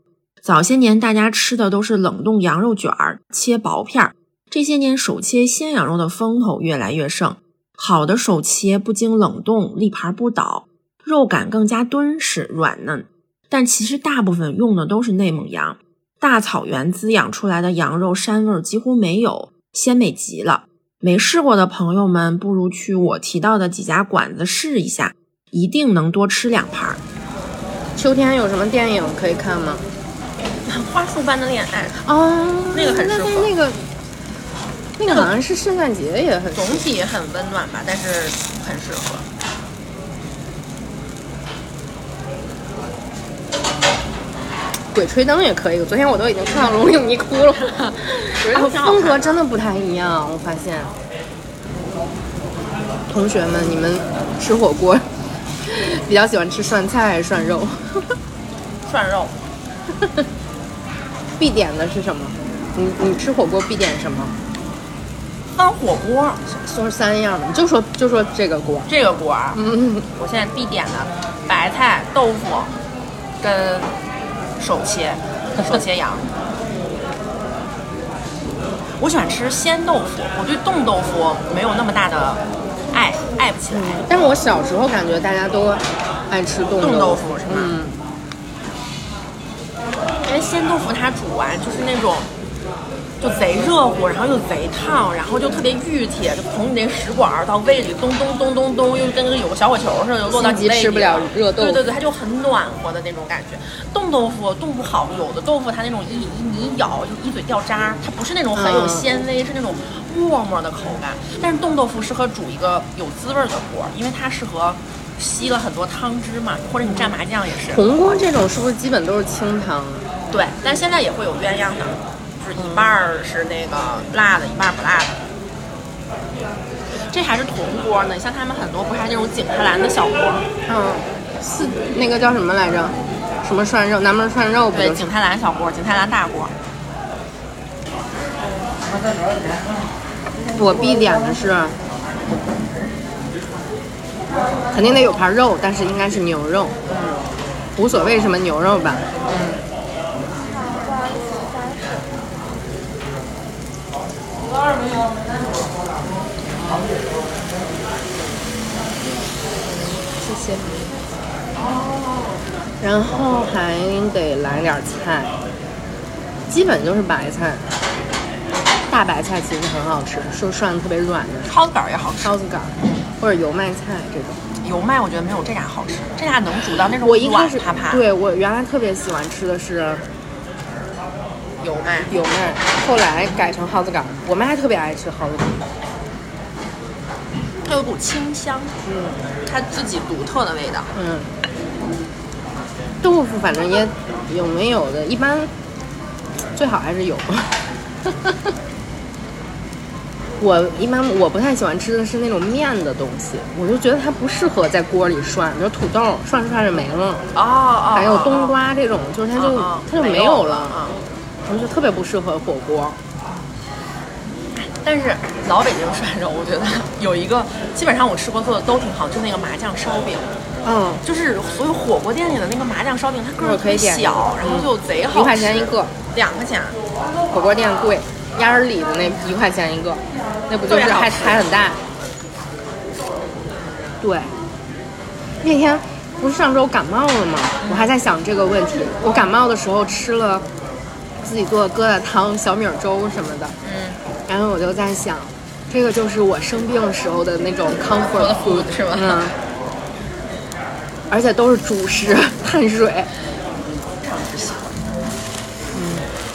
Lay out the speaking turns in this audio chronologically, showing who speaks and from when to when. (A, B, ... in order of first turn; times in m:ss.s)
0:00.4-0:27.0 A
0:28.0-0:29.8 B
0:30.6-0:32.0 C
0:32.0-0:33.8 B
0:32.7-0:33.5 C
0:35.0-0:36.9 B
0:35.1-0:35.4 C
0:36.5-0:39.3 C
0:44.9-0:50.9 B
0:47.7-0:49.4 C
0:53.1-0:55.0 B
0:55.7-0:57.8 B
0:58.8-0:59.4 C
1:01.4-1:04.3 B
1:05.6-1:06.4 C
1:06.5-1:08.9 B
1:08.9-1:09.6 C
1:09.5-1:10.1 B
1:10.2-1:12.7 C
1:13.4-1:13.9 C
1:14.6-1:16.3 C
1:19.0-1:24.1 C
1:23.7-1:28.0 B
1:26.8-1:27.8 C
1:30.2-1:32.3 C
1:33.2-1:57.9 C
1:40.3-1:41.8 B
1:48.6-1:49.1 B
1:57.7-2:00.1 B
2:00.3-2:05.2 C
2:02.6-2:03.0 B
2:07.1-2:10.5 C
2:10.7-2:15.1 B
2:14.7-2:16.6 C
2:20.6-2:21.8 B
2:24.7-2:26.8 B
2:27.8-2:29.2 B
2:40.1-2:40.9 B
2:41.6-2:42.4 C
2:42.8-2:45.3 B
2:46.5-2:47.7 B
2:48.9-2:51.5 B
2:51.4-2:52.4 C
2:52.2-2:54.4 B
2:54.6-2:58.0 C
2:57.0-3:00.0 B
3:01.6-3:02.2 C
3:02.1-3:05.6 B
3:07.6-3:08.8 C
3:08.9-3:09.2 B
3:09.5-3:10.9 C
3:11.0-3:11.3 B
3:13.0-3:15.5 B
3:16.6-3:17.5 B
3:20.4-3:27.2 B
3:27.3-3:28.6 C
3:27.9-3:30.8 B
3:29.3-3:31.0 C
3:31.5-3:33.0 B
3:34.6-3:40.4 C
3:40.6-3:41.0 B
3:41.0-3:46.8 C
3:43.4-3:45.9 B
3:47.3-3:51.8 B
3:50.7-3:51.5 C
3:54.0-3:54.3 B
3:55.4-4:00.4 B
3:57.6-3:57.9 C
4:01.2-4:03.5 B
4:03.6-4:04.0 C
4:04.3-4:09.4 B
4:07.8-4:09.4 C
4:11.1-4:13.1 B
4:14.0-4:14.8 C
4:15.7-4:16.1 B